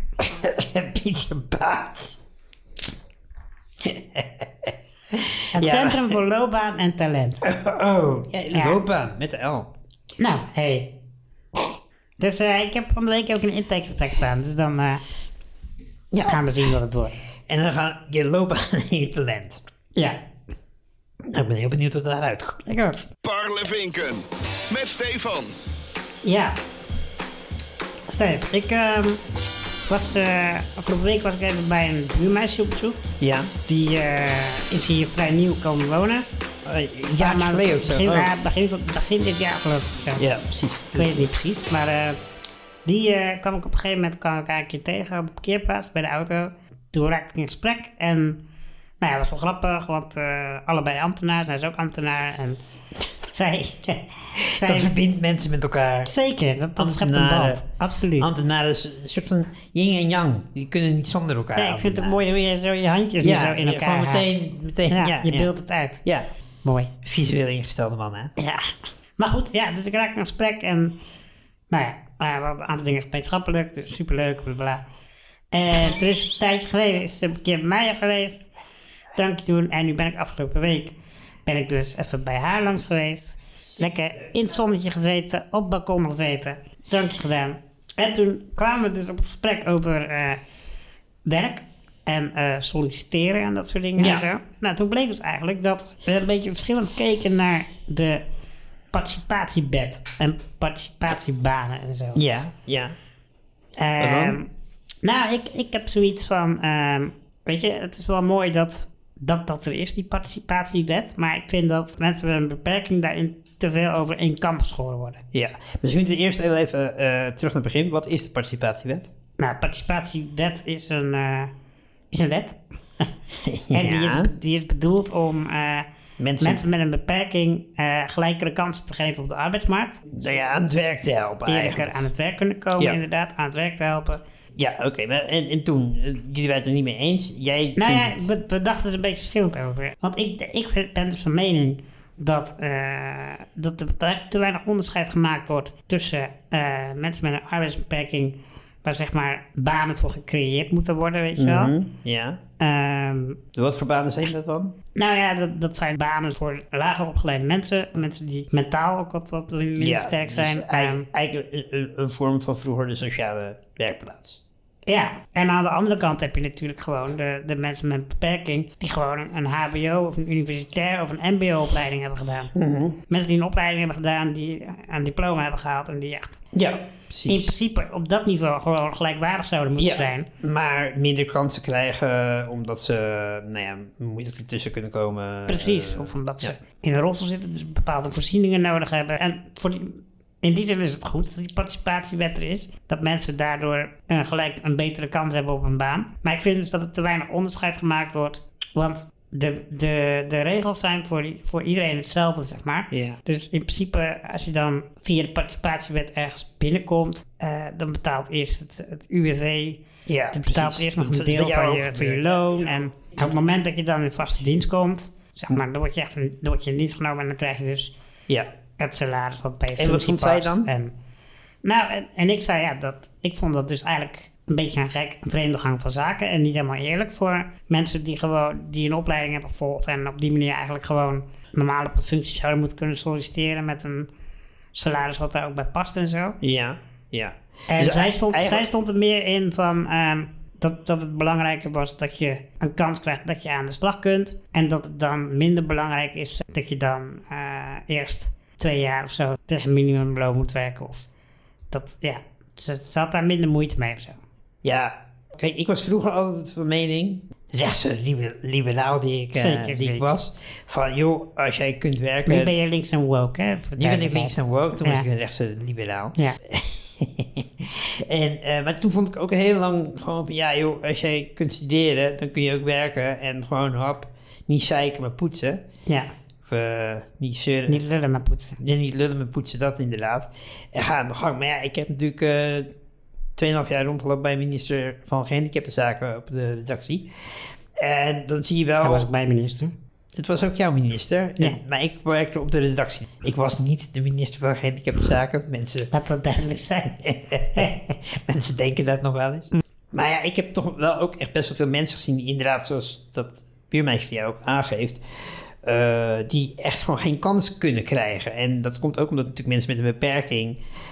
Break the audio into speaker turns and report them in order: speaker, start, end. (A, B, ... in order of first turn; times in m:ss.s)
0:00.2-0:02.2 A
0:03.8-0:06.2 A
0:05.5-0:07.5 B
0:07.4-0:09.7 A
0:08.5-0:08.8 B
0:10.2-0:11.0 B
0:12.2-0:15.0 B
0:16.1-0:16.4 A
0:16.3-0:17.2 B
0:17.5-0:19.6 A
0:20.0-0:20.2 B
0:21.2-0:22.7 A
0:22.7-0:23.0 B
0:23.2-0:25.5 C
0:26.2-0:26.6 B
0:28.1-0:29.2 B
0:29.9-0:33.0 B
0:33.2-0:33.5 A
0:33.7-0:36.3 B
0:36.6-0:38.3 A
0:37.2-0:40.3 B
0:40.2-0:41.3 A
0:40.9-0:42.2 B
0:42.8-0:48.4 B
0:49.0-0:52.6 B
0:53.2-0:54.9 B
0:54.4-0:56.1 A
0:56.0-0:58.3 B
0:56.8-0:57.6 A
0:58.2-1:02.2 A
1:01.6-1:06.0 B
1:03.2-1:05.5 A
1:06.6-1:06.9 B
1:07.0-1:08.3 A
1:08.4-1:11.0 B
1:11.7-1:14.8 B
1:15.5-1:18.5 B
1:19.2-1:30.4 B
1:31.2-1:38.2 B
1:34.0-1:34.2 A
1:38.9-1:42.2 B
1:42.2-1:43.0 A
1:43.8-1:44.5 B
1:44.0-1:44.4 A
1:45.0-1:55.2 B
1:55.3-1:59.1 A
1:59.4-2:01.5 B
2:02.1-2:03.1 B
2:03.4-2:04.3 A
2:03.7-2:05.9 B
2:06.2-2:06.6 A
2:06.4-2:10.0 B
2:10.1-2:12.0 A
2:11.5-2:14.2 B
2:14.6-2:18.3 A
2:17.8-2:31.7 B
2:31.4-2:32.4 A
2:32.6-2:33.4 B
2:33.6-2:34.8 A
2:35.0-2:41.1 B
2:39.8-2:44.4 A
2:44.9-2:52.5 B
2:52.6-2:53.0 A
2:53.1-2:56.4 B
2:56.5-2:57.5 A
2:57.3-3:00.3 B
2:59.8-3:06.5 A
3:05.5-3:37.9 B
3:22.9-3:23.2 A
3:30.1-3:32.8 A
3:38.8-3:41.0 B
3:39.8-3:40.7 A
3:41.6-3:54.1 B
3:54.7-3:56.4 B
3:56.4-3:58.6 A
3:57.7-4:11.1 B
4:11.7-4:14.2 B
4:14.6-4:22.5 A
4:19.4-4:20.1 B
4:22.3-4:25.0 B
4:23.8-4:35.6 A
4:36.4-4:37.8 A
4:37.7-4:38.6 B
4:38.6-4:42.7 A
4:43.4-4:47.1 A
4:47.8-4:49.1 A
4:48.8-4:49.7 B
4:50.2-4:55.9 A
4:55.9-4:57.0 B
4:56.9-5:10.6 A
4:57.6-4:58.0 B